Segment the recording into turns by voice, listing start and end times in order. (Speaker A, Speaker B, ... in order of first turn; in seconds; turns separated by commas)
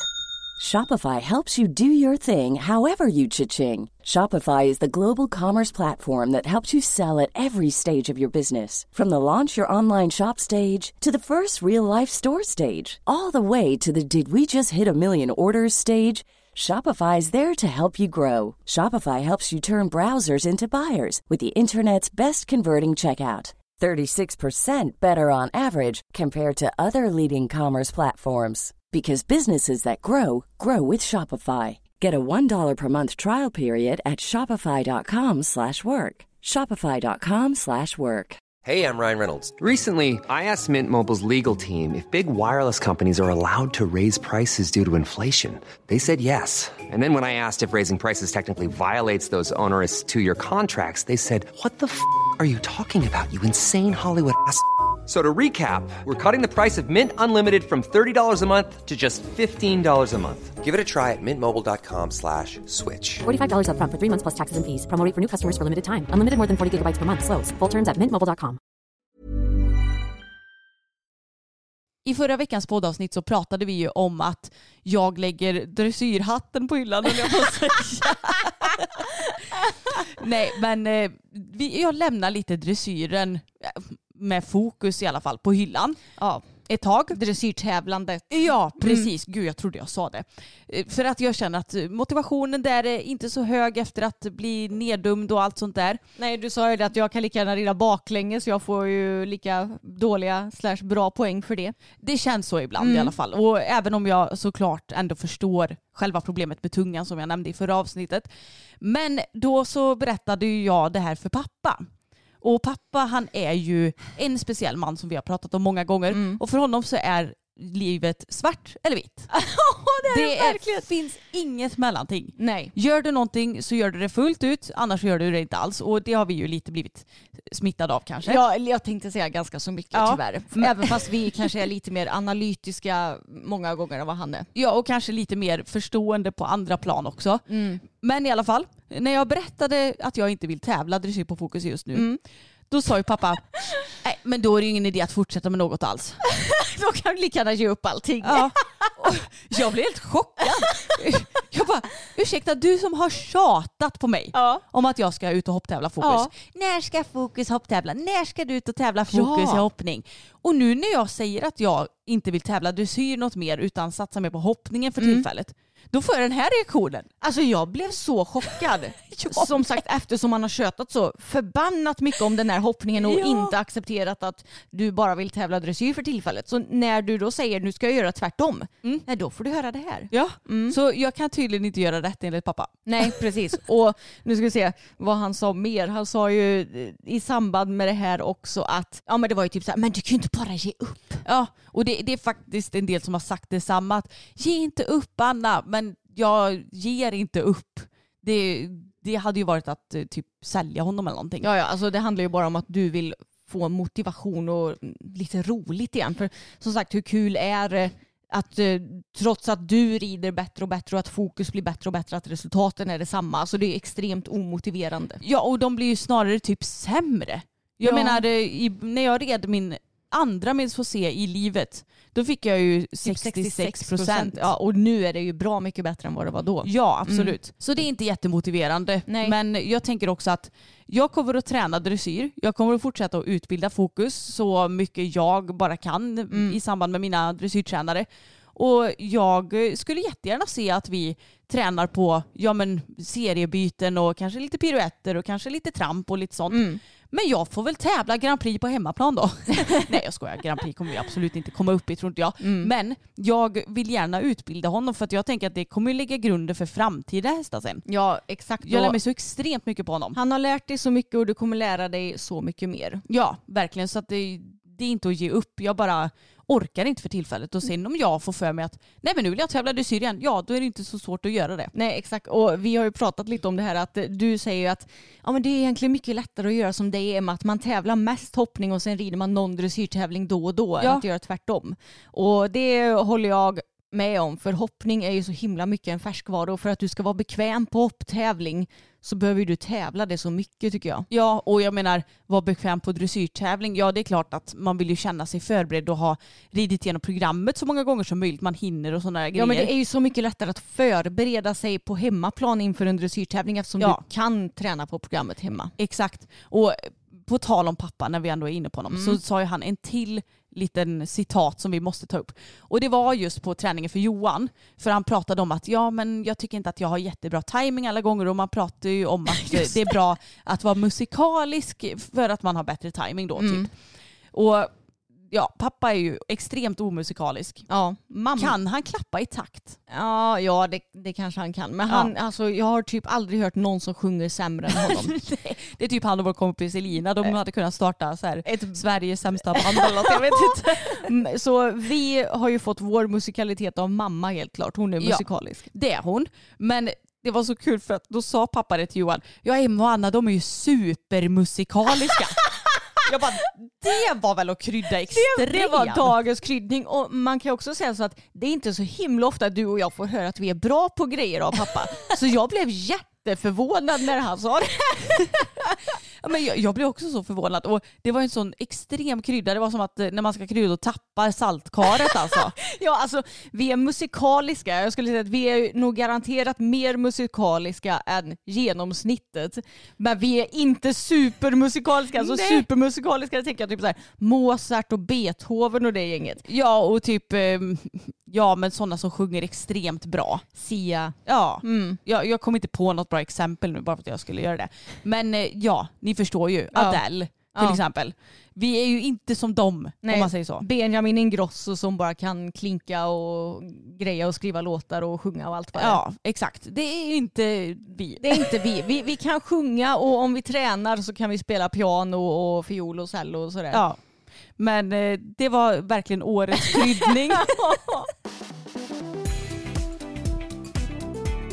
Speaker A: 0.6-38.4, Speaker B: 38.6-63.2, Speaker C: 63.2-68.6, Speaker D: 72.0-79.1, Speaker D: 79.9-86.0, Speaker E: 86.2-86.5, Speaker D: 86.7-87.2, Speaker E: 87.1-89.1, Speaker D: 88.3-96.0, Speaker E: 96.2-101.7, Speaker D: 102.0-108.3, Speaker E: 102.8-103.1, Speaker D: 108.8-111.8, Speaker D: 112.4-119.3, Speaker E: 116.1-116.4, Speaker E: 119.3-120.8, Speaker D: 120.0-128.4, Speaker E: 122.4-122.7, Speaker E: 128.2-134.5, Speaker D: 129.9-131.5, Speaker D: 134.5-142.1, Speaker E: 137.5-137.8, Speaker E: 141.9-142.2, Speaker D: 142.7-146.2, Speaker E: 146.2-148.9, Speaker D: 148.2-167.1, Speaker E: 150.4-151.1, Speaker E: 154.3-154.6, Speaker E: 156.0-156.3, Speaker E: 159.1-159.7, Speaker E: 165.0-165.2, Speaker E: 167.2-180.8, Speaker D: 169.1-169.8, Speaker D: 173.0-173.5, Speaker D: 180.1-183.2, Speaker E: 182.8-191.2, Speaker D: 191.2-201.5, Speaker E: 201.4-215.2, Speaker D: 215.2-224.5, Speaker E: 217.8-218.2, Speaker E: 223.0-227.4, Speaker D: 226.6-257.8, Speaker E: 229.1-229.3, Speaker E: 236.3-236.6, Speaker E: 246.5-246.8, Speaker E: 252.4-252.7, Speaker E: 257.9-259.0, Speaker D: 258.6-260.2, Speaker E: 260.1-263.0, Speaker D: 263.1-271.7, Speaker E: 271.7-291.1, Speaker D: 291.1-299.7, Speaker E: 299.3-305.7, Speaker D: 305.8-323.7, Speaker E: 308.9-309.2, Speaker E: 319.4-319.9, Speaker E: 323.4-323.7, Speaker D: 324.3-324.7, Speaker D: 325.3-327.6, Speaker E: 327.7-328.5, Speaker D: 328.4-329.8, Speaker E: 329.9-335.1, Speaker D: 334.8-341.1, Speaker E: 338.4-338.8, Speaker E: 339.5-345.7, Speaker D: 345.0-352.4, Speaker E: 352.5-352.8, Speaker D: 353.0-356.1, Speaker E: 355.1-365.7, Speaker D: 366.2-372.5, Speaker E: 371.8-386.4, Speaker D: 382.1-382.7, Speaker D: 386.4-390.4, Speaker E: 390.5-392.0, Speaker D: 391.2-400.6, Speaker E: 396.7-397.0, Speaker E: 397.5-397.8, Speaker E: 400.0-406.0, Speaker D: 405.7-408.6, Speaker E: 408.2-413.8, Speaker D: 413.7-414.0, Speaker D: 414.6-417.6, Speaker E: 416.6-418.1